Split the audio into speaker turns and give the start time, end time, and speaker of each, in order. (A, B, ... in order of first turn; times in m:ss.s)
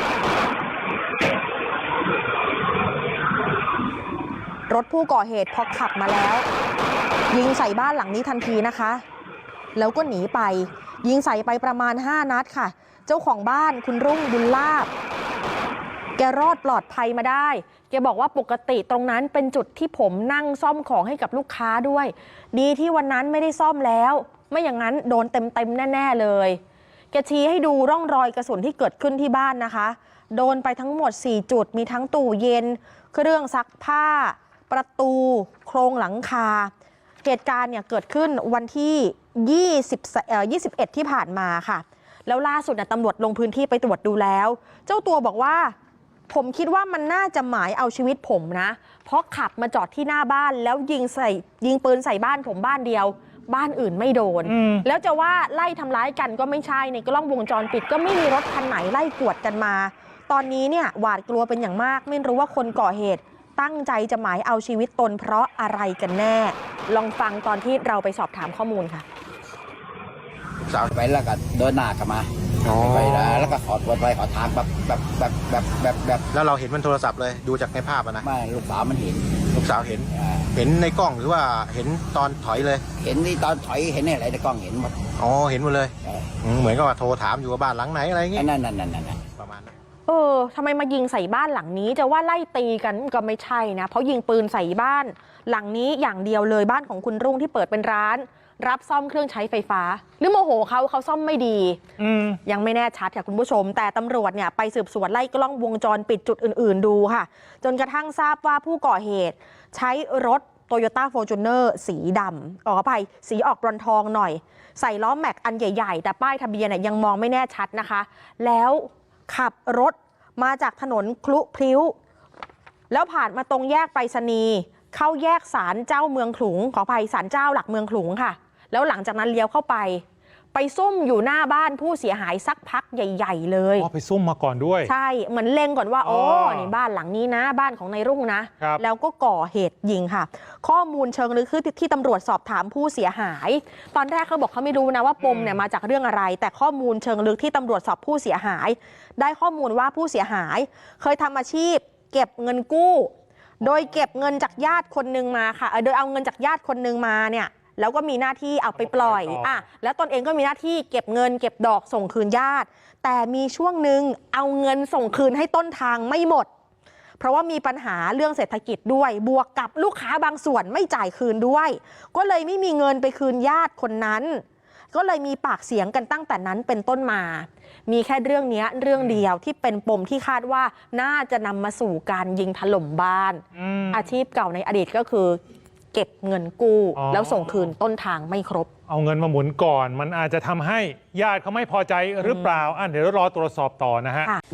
0:04.7-0:06.4 A
0:07.3-0:09.0 A
0:09.8-0:14.9 A
0:16.2-0:26.6 A
0:27.1-0:36.7 A
0:37.2-0:45.8 A
0:46.3-1:09.0 A
0:54.5-0:54.8 B
1:10.7-1:16.3 C
1:12.6-1:13.6 D
1:16.3-1:18.3 D
1:18.2-1:19.4 C
1:19.5-1:22.8 D
1:20.1-1:20.5 C
1:23.0-1:25.1 C
1:25.2-1:28.5 D
1:28.4-1:29.2 C
1:29.3-1:29.7 D
1:30.1-1:41.8 A
1:42.0-1:42.4 B
1:42.4-2:02.0 A
2:02.9-2:13.9 A
2:13.8-2:14.9 B
2:14.8-2:46.5 A
2:16.0-2:16.7 B
2:25.2-2:25.5 B
2:38.8-2:39.6 B
2:47.2-3:05.4 A
3:03.6-3:04.0 B
3:05.9-3:08.7 A
3:07.0-3:07.7 B
3:08.9-3:14.3 B
3:12.2-3:12.5 A